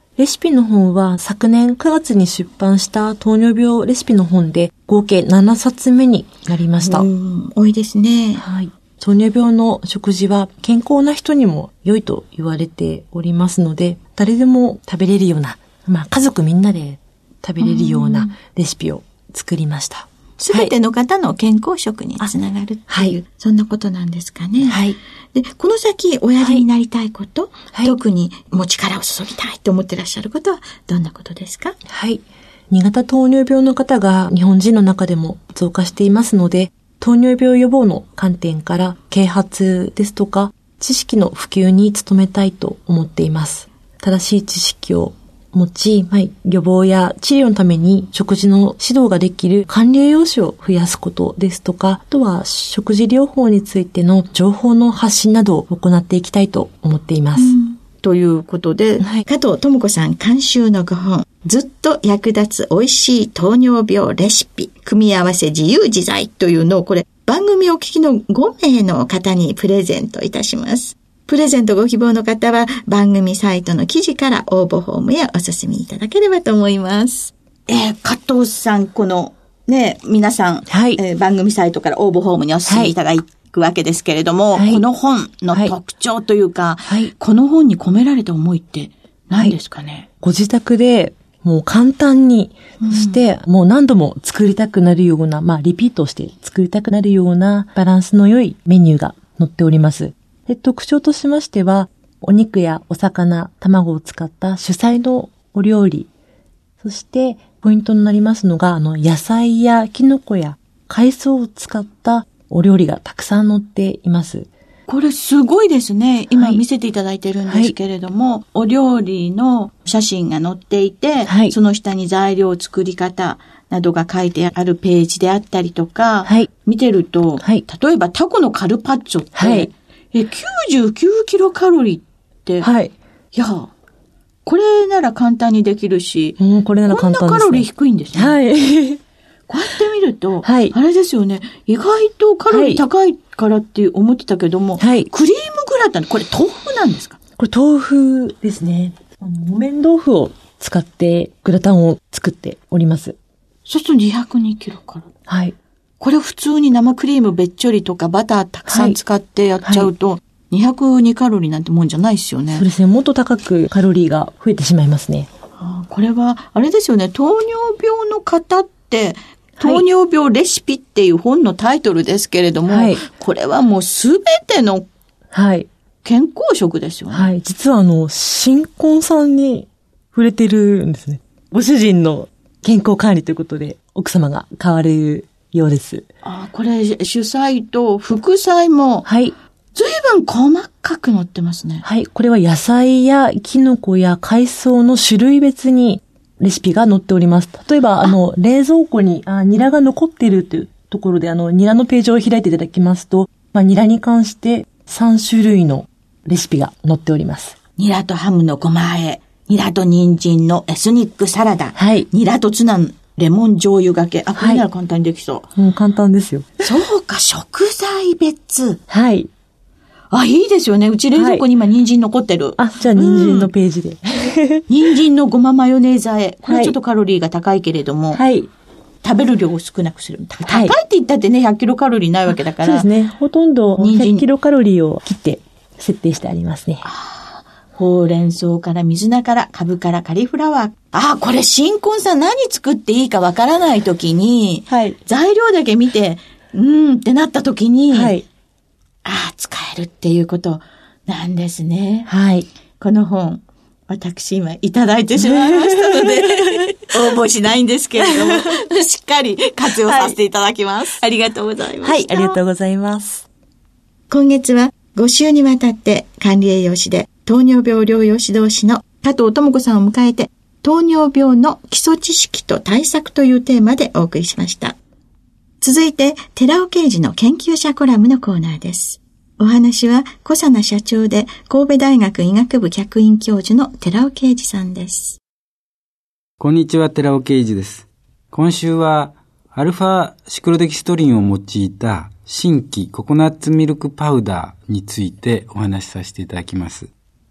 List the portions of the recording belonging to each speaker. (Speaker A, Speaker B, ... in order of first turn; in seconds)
Speaker A: 0.2-7.1, 8.3-20.7, 22.9-23.2, 24.6-25.0, 26.4-26.6, 31.9-57.5, 59.0-59.2, 80.7-81.0, 82.7-82.9, 84.5-84.8, 86.9-87.1, 90.2-106.1, 106.8-114.5, 116.3-116.6, 117.4-117.7, 121.2-121.5, 126.2-126.5, 127.4-127.6, 129.3-129.7, 132.6-132.9, 136.4-139.0, 140.4-140.8, 142.5-142.8, 144.8-145.1, 147.4-153.2, 155.3-155.6, 158.6-159.0, 159.6-159.9, 162.5-165.3, 169.6-169.8, 172.7-173.0, 175.3-175.7, 177.1-186.1, 189.0-189.3, 191.8-207.6, 211.7-212.1, 214.3-214.6, 215.6-216.5, 218.9-219.3, 221.1-221.5, 222.6-224.7, 226.4-226.8, 228.1-228.5, 230.4-230.8, 232.3-236.8, 244.7-245.0, 247.9-248.2, 252.1-252.5, 255.2-256.6, 258.0-258.5, 259.8-260.1, 261.8-263.2
Speaker B: 6.8-8.4, 17.6-18.3, 20.4-31.8, 57.4-90.1, 92.8-93.2, 114.9-132.7, 133.3-133.7, 134.4-138.3, 139.5-147.2, 153.7-155.1, 156.0-162.7, 165.6-174.9, 176.0-177.3, 186.2-189.1, 189.7-191.8, 207.8-215.5, 216.6-218.8, 220.1-223.5, 224.7-228.2, 229.0-232.9, 233.8-234.2, 236.8-248.2, 249.0-252.1, 252.8-262.4, 264.1-274.8, 275.6-285.2
Speaker C: 286.4-296.9